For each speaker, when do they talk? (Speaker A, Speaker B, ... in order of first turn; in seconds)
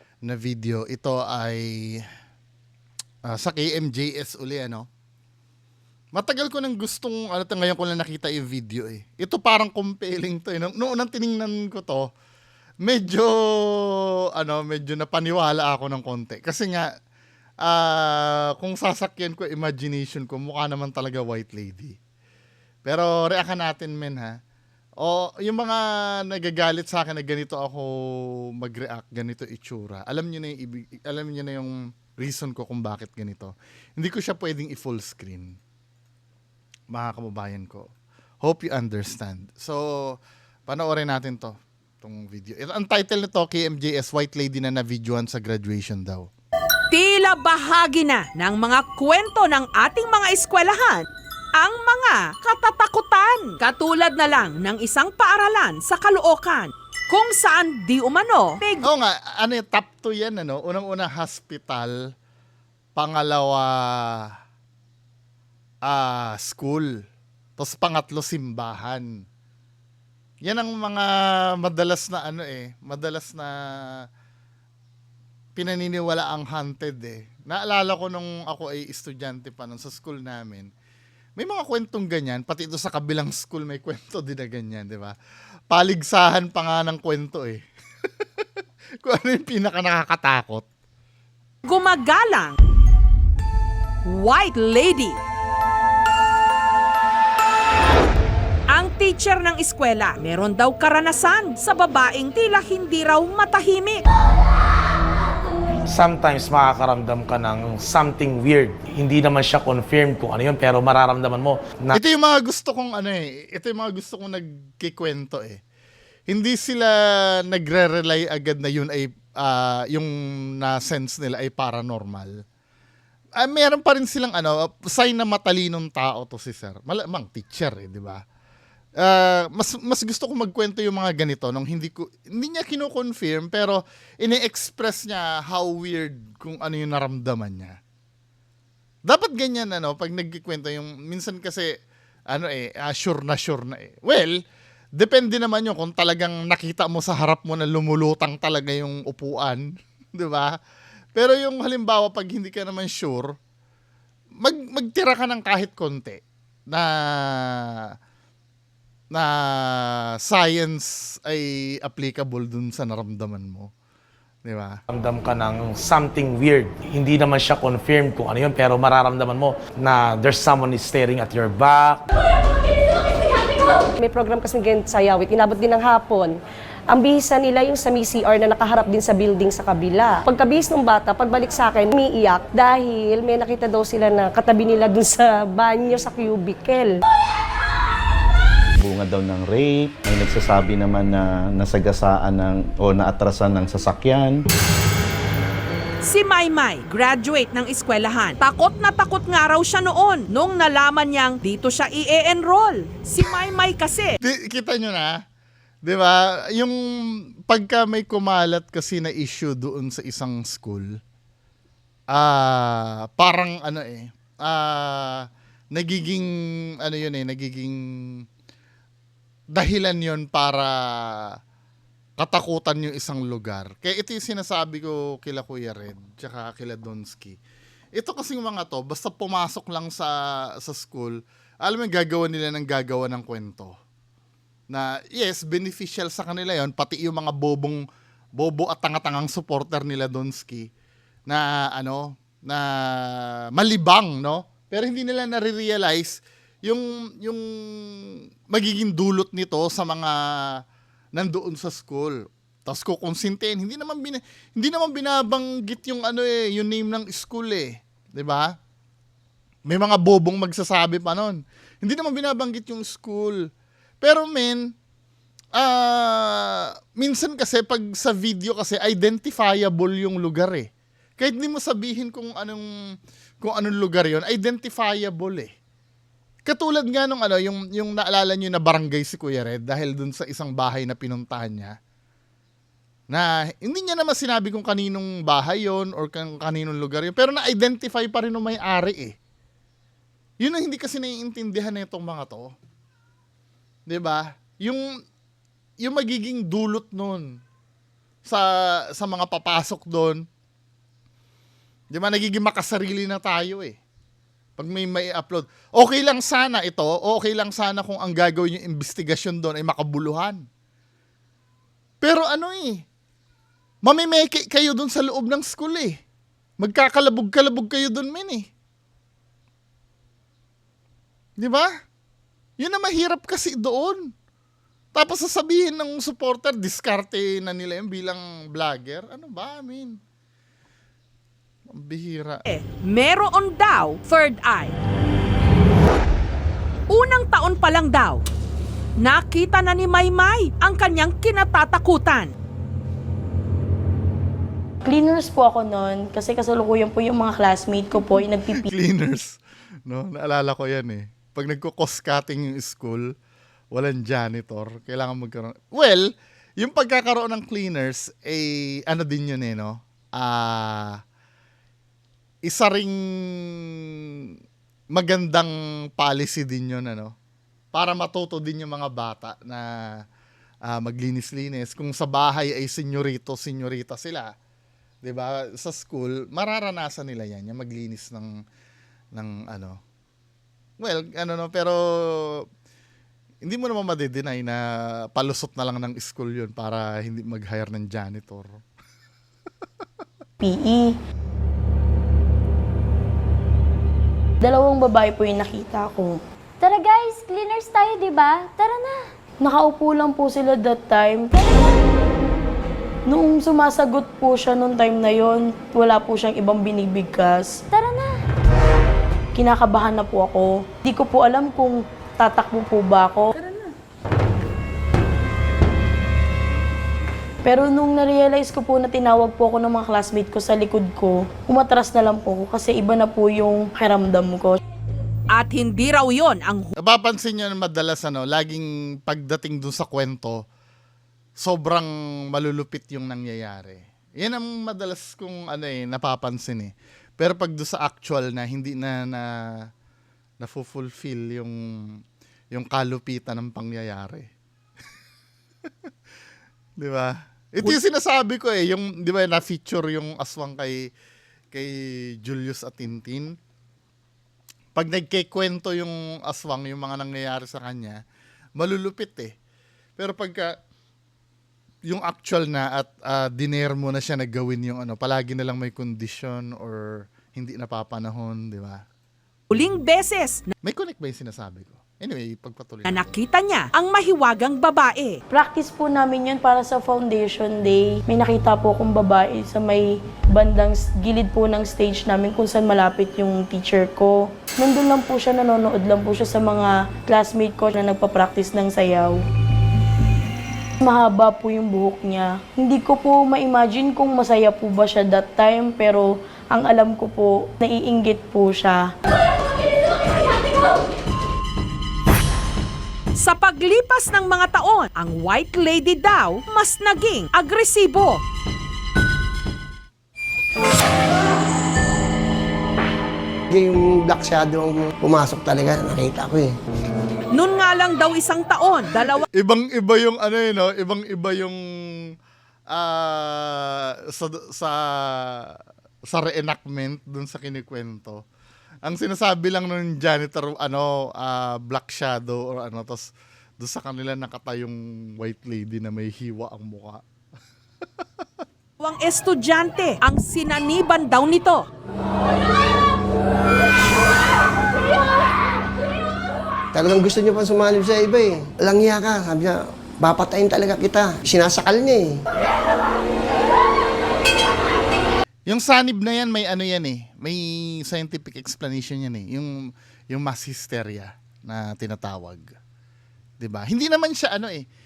Speaker A: 0.2-2.0, 3.3-4.9, 6.1-12.1, 12.8-16.9, 17.6-21.9, 22.8-24.4, 25.0-27.9, 28.6-35.6, 36.9-37.9, 38.4-46.3, 58.8-61.9, 63.0-64.3, 65.8-66.9, 67.6-69.0, 70.4-71.1, 71.6-73.5, 75.5-80.7, 81.4-85.1, 85.7-87.6, 89.0-90.6, 111.9-115.6, 116.3-122.3, 123.4-128.2, 129.0-137.8, 139.1-141.7, 142.3-144.3, 144.9-150.6, 151.1-153.3, 154.4-157.7, 159.1-163.7, 164.4-164.8, 204.2-205.2, 205.8-211.0, 212.1-216.3, 216.8-218.2, 219.5-221.3, 222.2-227.3, 227.9-233.7, 234.7-237.8, 238.4-240.7, 241.3-250.6, 251.2-258.5, 259.7-263.5, 264.0-264.7, 265.6-272.7, 273.4-275.5, 276.4-281.7, 283.1-289.1, 290.4-292.5, 293.9-294.8, 295.8-297.4, 298.2-300.2, 301.9-303.8, 304.6-310.4, 312.0-312.8, 313.8-316.0, 316.6-318.5, 321.4-321.7, 322.6-324.1, 324.9-330.0, 331.7-332.4, 348.5-353.1, 353.7-356.1, 356.6-361.0, 362.5-363.7, 364.9-367.1, 367.7-370.0, 370.7-374.3, 375.0-378.4, 379.1-379.8, 380.8-382.4, 383.4-388.6, 426.8-430.4, 431.4-439.7, 440.4-442.0, 442.5-444.3, 446.8-450.9, 451.5-453.4, 454.7-458.0, 458.6-459.3, 460.0-460.5, 461.9-468.8, 470.6-473.0, 519.3-521.6, 522.7-525.6, 526.1-528.2, 528.9-533.1, 533.6-537.0, 555.5-559.5, 560.1-562.5, 563.4-564.6
Speaker B: 46.9-51.0, 51.5-58.8, 91.6-92.6, 94.0-95.2, 98.7-104.0, 196.0-204.2, 332.5-334.7, 336.9-338.2, 339.0-342.3, 425.3-426.7, 469.5-470.5, 472.9-475.2, 503.1-508.2, 517.3-519.2, 538.8-541.6
Speaker C: 105.9-112.0, 164.9-172.0
Speaker D: 174.0-176.3, 176.9-186.9
Speaker E: 188.8-194.4
Speaker F: 344.8-348.7, 390.4-390.9, 394.4-396.2, 399.4-401.3, 403.1-407.6, 409.3-413.3, 417.4-424.6, 475.3-489.2, 490.8-498.9
Speaker G: 396.6-399.0, 407.7-408.2
Speaker H: 513.5-516.5, 546.7-552.2